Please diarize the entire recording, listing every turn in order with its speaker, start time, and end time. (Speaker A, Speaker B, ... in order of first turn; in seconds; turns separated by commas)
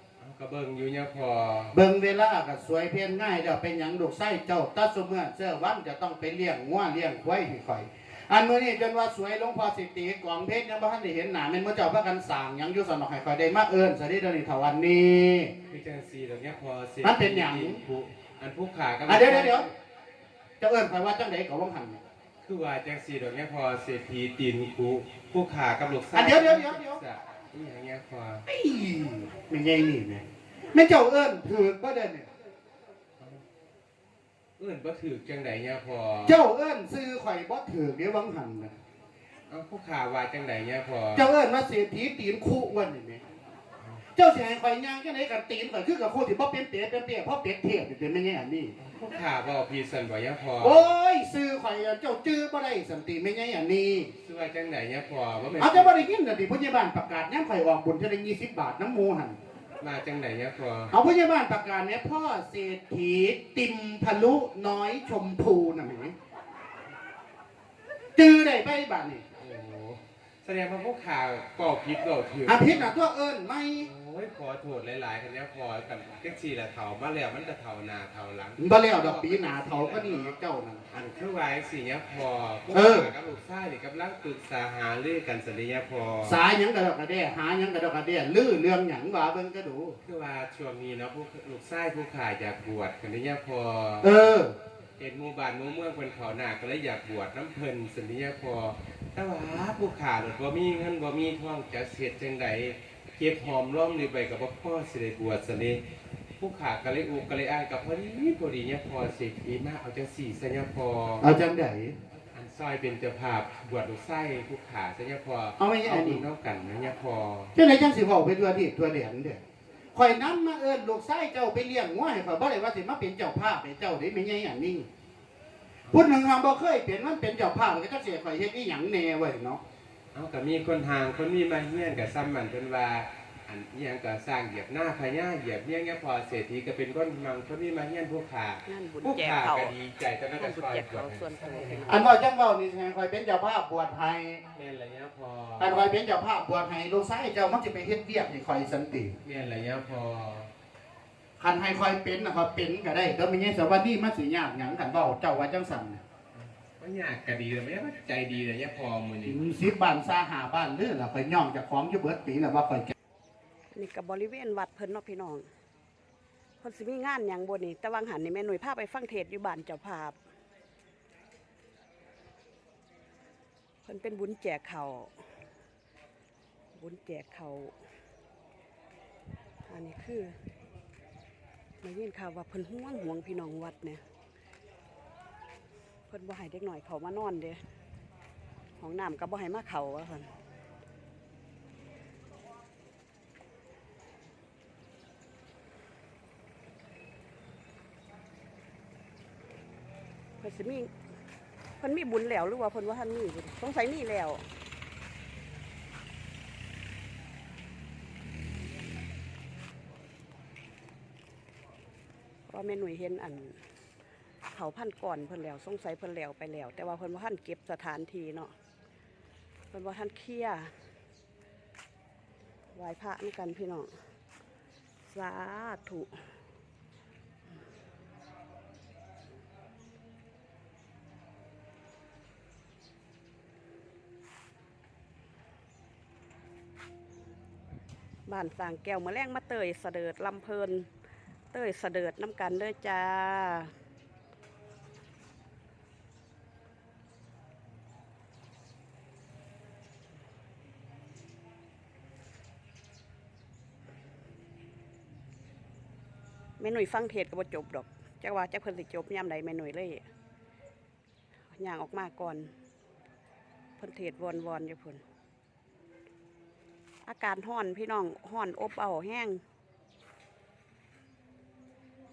Speaker A: 0.2-1.7, Speaker B: 1.7-15.5, Speaker A: 15.7-19.7, Speaker B: 17.0-17.8, Speaker B: 19.1-19.7, Speaker B: 20.6-22.0, Speaker A: 22.4-28.4, Speaker B: 26.1-27.0, Speaker B: 28.5-32.3, Speaker A: 34.6-36.4, Speaker B: 36.2-38.7, Speaker A: 39.5-41.3, Speaker B: 41.1-43.2, Speaker B: 44.1-48.7, Speaker A: 48.8-50.9, Speaker B: 50.6-54.1, Speaker A: 54.2-56.0, Speaker B: 55.6-59.4, Speaker A: 59.8-60.9, Speaker B: 60.9-66.1, Speaker B: 68.2-69.2, Speaker A: 69.4-73.0, Speaker B: 72.5-73.9, Speaker A: 73.8-80.4, Speaker B: 78.6-80.8, Speaker A: 80.9-86.4, Speaker B: 82.7-83.1, Speaker B: 86.2-90.0, Speaker A: 90.0-94.1, Speaker B: 94.0-94.5, Speaker A: 95.0-105.8, Speaker A: 106.4-111.3, Speaker B: 111.2-112.0, Speaker A: 112.3-117.5, Speaker B: 115.6-116.2, Speaker B: 117.5-119.4, Speaker B: 119.9-124.9, Speaker B: 125.9-129.6, Speaker A: 130.1-142.0, Speaker C: 138.7-139.7, Speaker C: 140.4-142.1, Speaker B: 141.9-144.4, Speaker A: 144.5-145.7, Speaker B: 145.6-149.2, Speaker A: 149.2-150.5, Speaker B: 151.4-156.0, Speaker A: 156.3-159.4, Speaker B: 159.2-162.9, Speaker C: 163.7-165.4, Speaker C: 166.6-170.2, Speaker C: 173.8-175.1, Speaker C: 176.7-177.7, Speaker C: 179.7-180.3, Speaker C: 181.8-184.0, Speaker C: 186.1-187.6, Speaker C: 188.8-190.3, Speaker C: 200.4-200.9, Speaker C: 201.8-204.5, Speaker C: 212.5-213.6, Speaker C: 214.5-218.5, Speaker C: 219.7-220.7, Speaker C: 222.7-223.9, Speaker C: 225.1-226.2, Speaker C: 238.3-240.9, Speaker C: 241.5-243.7, Speaker C: 256.6-260.0, Speaker C: 261.5-262.5, Speaker C: 263.8-265.0, Speaker C: 267.1-269.4